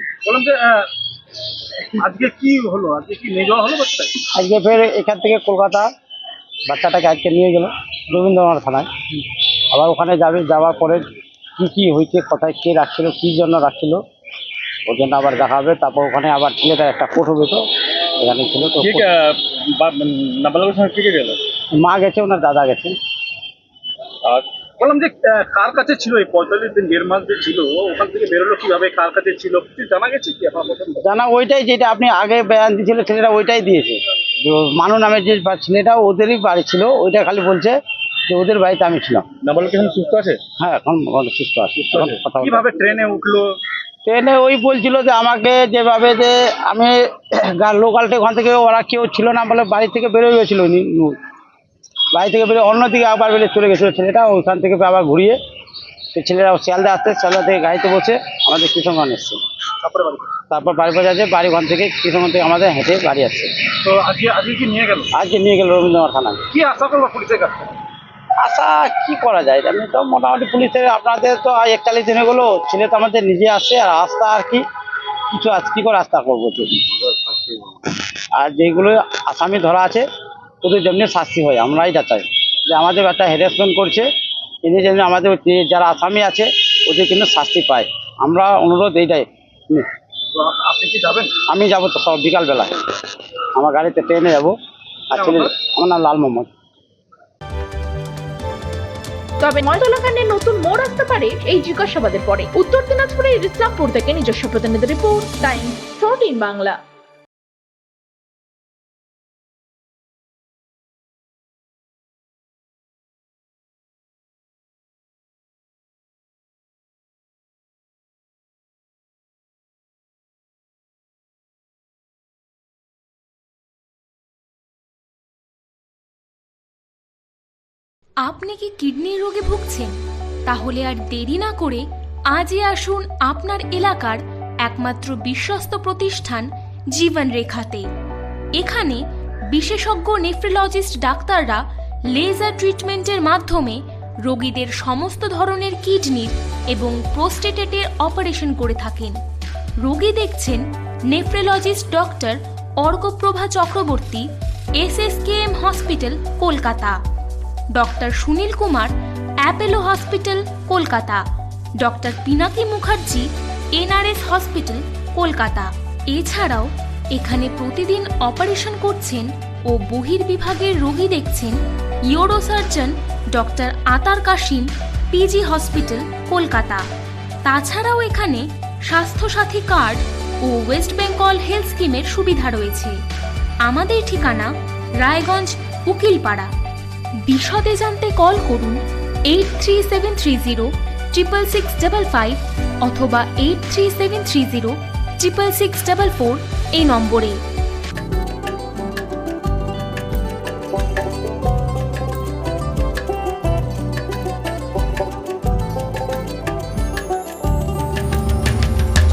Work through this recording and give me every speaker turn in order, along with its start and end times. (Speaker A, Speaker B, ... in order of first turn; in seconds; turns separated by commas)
Speaker A: 0.2-0.9, Speaker A: 1.8-4.2, Speaker B: 4.4-5.9, Speaker B: 6.7-8.9, Speaker B: 9.7-14.0, Speaker B: 14.9-19.1, Speaker A: 18.8-21.4, Speaker B: 21.8-22.9, Speaker A: 24.2-31.0, Speaker B: 31.0-37.8, Speaker B: 38.3-39.2, Speaker A: 39.4-40.4, Speaker B: 40.6-42.6, Speaker A: 41.9-43.6, Speaker B: 44.1-51.2, Speaker B: 52.1-55.4, Speaker B: 56.1-59.4, Speaker A: 59.8-60.4, Speaker B: 60.5-63.5, Speaker A: 63.8-65.1, Speaker B: 65.1-66.4, Speaker A: 66.5-67.7, Speaker B: 68.4-74.6, Speaker B: 75.3-77.6, Speaker B: 78.3-80.0, Speaker B: 80.6-84.1, Speaker B: 84.7-89.9, Speaker A: 90.3-91.4, Speaker B: 91.4-92.8, Speaker B: 93.5-94.5, Speaker B: 95.1-96.5, Speaker A: 95.1-95.5, Speaker C: 99.4-106.8, Speaker D: 128.2-129.9, Speaker D: 130.5-137.9, Speaker D: 138.6-141.6, Speaker D: 142.1-149.2, Speaker D: 149.8-154.3, Speaker D: 154.8-157.0, Speaker D: 157.8-158.9, Speaker D: 159.4-161.2, Speaker D: 161.8-171.6, Speaker D: 172.1-176.9, Speaker D: 177.4-183.0, Speaker D: 183.7-186.5, Speaker D: 187.3-197.4